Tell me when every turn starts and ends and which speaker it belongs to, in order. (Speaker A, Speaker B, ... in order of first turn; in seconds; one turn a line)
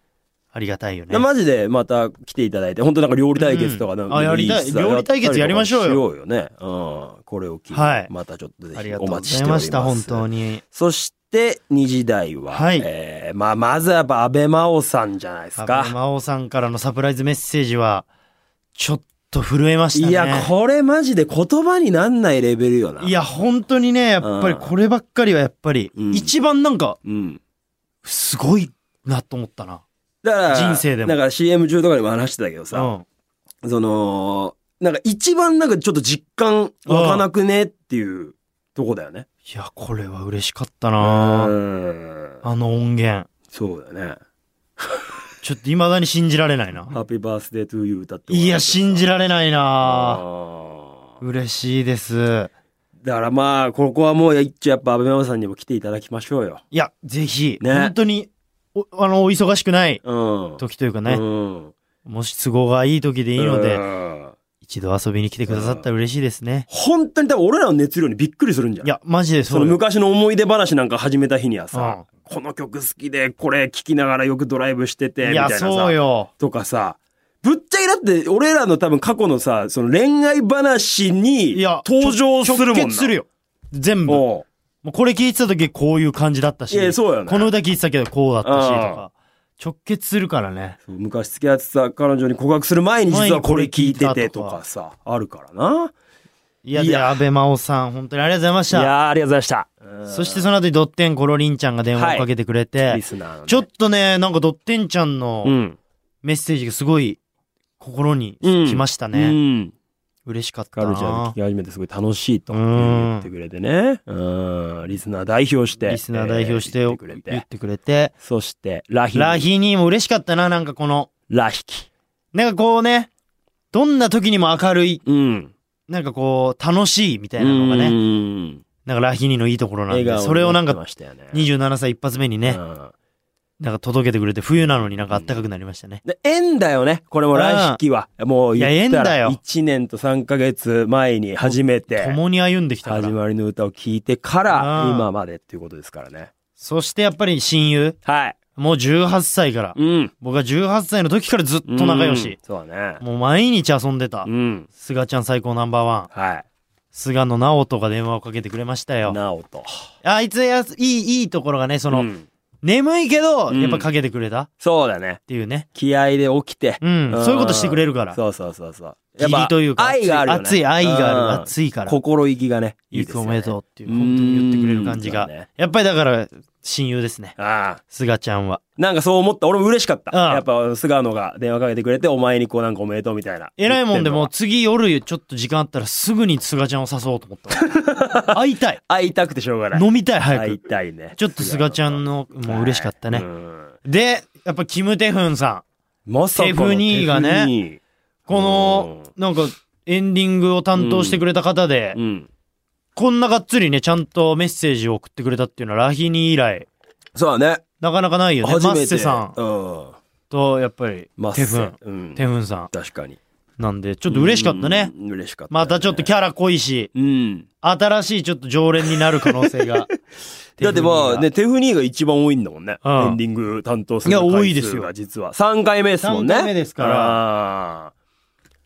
Speaker A: 0.5-1.3
Speaker B: 1.1-15.9
Speaker A: 3.4-6.0
Speaker A: 7.7-8.1
Speaker A: 8.8-10.6
Speaker A: 12.5-12.9
Speaker A: 15.6-18.1
Speaker A: 18.8-20.5
Speaker B: 19.9-23.1
Speaker A: 23.0-27.0
Speaker B: 24.2-24.7
Speaker B: 25.9-26.3
Speaker B: 27.0-27.4
Speaker A: 28.0-29.8
Speaker B: 30.2-32.9
Speaker A: 30.5-31.2
Speaker A: 32.7-33.1
Speaker B: 33.6-39.3
Speaker A: 36.9-37.3
Speaker A: 39.5-41.5
Speaker B: 41.0-42.4
Speaker A: 42.4-43.3
Speaker B: 43.5-44.2
Speaker A: 45.4-47.0
Speaker B: 46.9-49.1
Speaker A: 48.3-50.2
Speaker B: 49.8-51.1
Speaker A: 51.2-52.5
Speaker B: 53.0-56.6
Speaker A: 56.7-60.0
Speaker B: 57.6-57.9
Speaker B: 60.0-61.7
Speaker A: 60.6-61.2
Speaker A: 62.1-63.9
Speaker B: 63.4-64.4
Speaker A: 64.6-66.7
Speaker B: 65.5-65.8
Speaker B: 66.7-68.9
Speaker A: 68.8-69.8
Speaker B: 69.5-83.1
Speaker A: 71.7-72.0
Speaker A: 75.2-76.3
Speaker A: 81.5-84.2
Speaker B: 84.1-84.5
Speaker A: 84.8-90.8
Speaker B: 86.7-87.5
Speaker B: 88.4-89.0
Speaker B: 90.9-95.9
Speaker A: 93.1-94.6
Speaker A: 96.6-98.9
Speaker B: 96.8-97.2
Speaker B: 98.7-100.5
Speaker A: 100.1-105.5
Speaker B: 102.0-102.3
Speaker B: 102.8-103.7
Speaker B: 105.4-105.8
Speaker A: 106.2-107.2
Speaker A: 107.8-109.4
Speaker B: 108.4-109.7
Speaker A: 110.3-111.4
Speaker B: 110.7-117.4
Speaker A: 112.5-113.3
Speaker A: 115.8-118.1
Speaker B: 118.2-119.5
Speaker A: 119.1-121.1
Speaker B: 121.3-121.9
Speaker A: 122.3-123.1
Speaker A: 123.7-125.0
Speaker B: 125.0-125.5
Speaker A: 125.9-128.0
Speaker B: 127.4-128.6
Speaker A: 128.9-130.8
Speaker B: 129.9-131.4
Speaker A: 131.3-132.6
Speaker B: 132.5-132.9
Speaker A: 133.6-136.0
Speaker B: 135.1-135.4
Speaker B: 136.0-142.2
Speaker A: 137.3-137.8
Speaker A: 138.6-139.4
Speaker A: 141.5-143.2
Speaker B: 142.8-146.3
Speaker A: 144.5-145.1
Speaker A: 146.6-148.0
Speaker B: 148.1-148.4
Speaker A: 148.6-152.4
Speaker B: 149.8-150.1
Speaker B: 151.7-153.0
Speaker A: 153.0-156.1
Speaker B: 154.3-154.7
Speaker B: 156.1-156.5
Speaker A: 156.9-159.2
Speaker B: 159.0-159.9
Speaker A: 160.0-162.1
Speaker B: 161.9-162.3
Speaker A: 162.6-164.5
Speaker B: 163.5-163.9
Speaker B: 164.6-165.2
Speaker A: 165.3-165.7
Speaker B: 165.7-175.5
Speaker A: 166.8-168.2
Speaker A: 169.2-172.0
Speaker A: 172.9-177.4
Speaker B: 177.4-177.8
Speaker A: 177.9-178.6
Speaker B: 178.8-184.3
Speaker A: 180.1-180.4
Speaker A: 183.6-187.7
Speaker B: 187.6-188.3
Speaker A: 188.3-188.8
Speaker B: 188.9-193.8
Speaker A: 189.7-190.6
Speaker A: 191.1-193.3
Speaker A: 193.8-195.6
Speaker B: 196.1-199.1
Speaker A: 196.3-197.5
Speaker A: 198.3-202.0
Speaker B: 200.8-201.2
Speaker B: 201.9-202.3
Speaker A: 203.0-206.7
Speaker B: 207.2-207.6
Speaker A: 207.8-209.4
Speaker B: 208.4-210.0
Speaker A: 210.3-212.7
Speaker B: 211.2-213.2
Speaker A: 213.6-214.9
Speaker B: 214.1-216.1
Speaker A: 215.5-216.9
Speaker B: 216.9-217.5
Speaker A: 217.6-219.9
Speaker A: 220.6-221.3
Speaker B: 220.6-227.9
Speaker A: 222.8-223.2
Speaker A: 224.1-224.9
Speaker A: 226.0-227.2